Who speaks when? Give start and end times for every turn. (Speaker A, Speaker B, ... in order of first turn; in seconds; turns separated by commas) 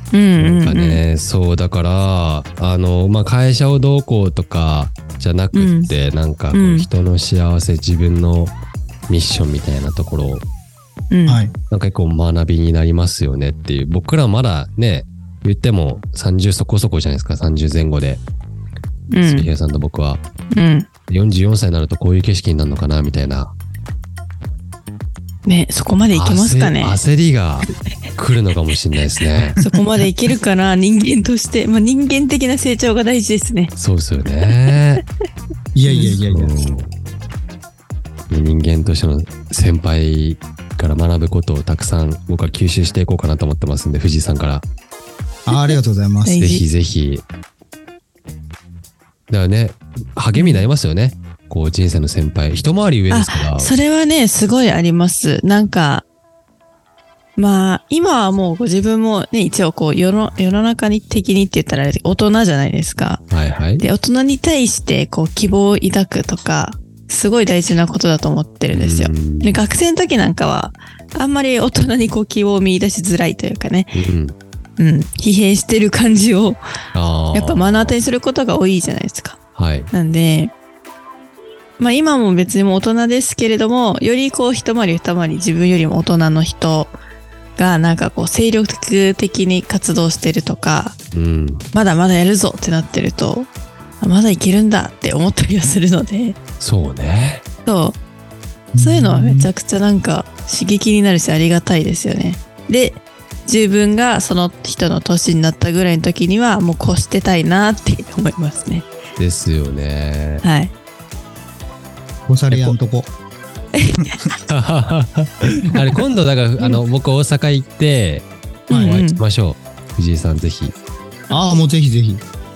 Speaker A: 0.1-1.0, Speaker B: 0.4-8.5, Speaker A: 5.5-5.9, Speaker A: 6.5-6.9, Speaker B: 9.1-10.4, Speaker A: 11.1-11.4, Speaker C: 11.3-11.5, Speaker B: 11.7-18.2, Speaker A: 19.1-19.5, Speaker B: 19.2-20.2, Speaker A: 20.5-20.9, Speaker B: 21.1-23.5, Speaker A: 25.4-27.0, Speaker B: 26.1-29.6, Speaker C: 29.4-29.6, Speaker A: 29.6-33.7, Speaker B: 33.8-35.0, Speaker C: 35.7-36.5, Speaker A: 35.9-36.1, Speaker B: 36.2-36.9, Speaker B: 38.3-44.6, Speaker C: 45.5-46.4, Speaker A: 45.5-46.6, Speaker B: 46.4-47.2, Speaker B: 49.3-53.8, Speaker A: 50.3-50.7, Speaker A: 53.1-56.0, Speaker A: 57.4-63.2, Speaker B: 63.3-63.8, Speaker A: 63.8-74.0, Speaker B: 68.7-69.6, Speaker B: 73.9-74.3, Speaker A: 74.8-76.6, Speaker B: 76.9-78.0, Speaker A: 77.3-79.4, Speaker B: 79.5-79.9, Speaker A: 79.9-80.5, Speaker A: 81.8-87.0, Speaker A: 87.6-91.0, Speaker B: 91.1-91.7, Speaker A: 91.7-96.4, Speaker B: 96.6-97.4, Speaker A: 97.7-98.0, Speaker C: 98.7-99.5, Speaker A: 98.8-108.9, Speaker B: 109.2-110.4, Speaker A: 110.4-110.7, Speaker C: 112.3-113.1, Speaker B: 112.5-112.8, Speaker A: 113.7-114.2, Speaker B: 114.5-118.3, Speaker A: 118.7-119.2, Speaker C: 118.7-119.0, Speaker B: 118.8-120.7, Speaker A: 121.3-121.6, Speaker C: 121.3-122.2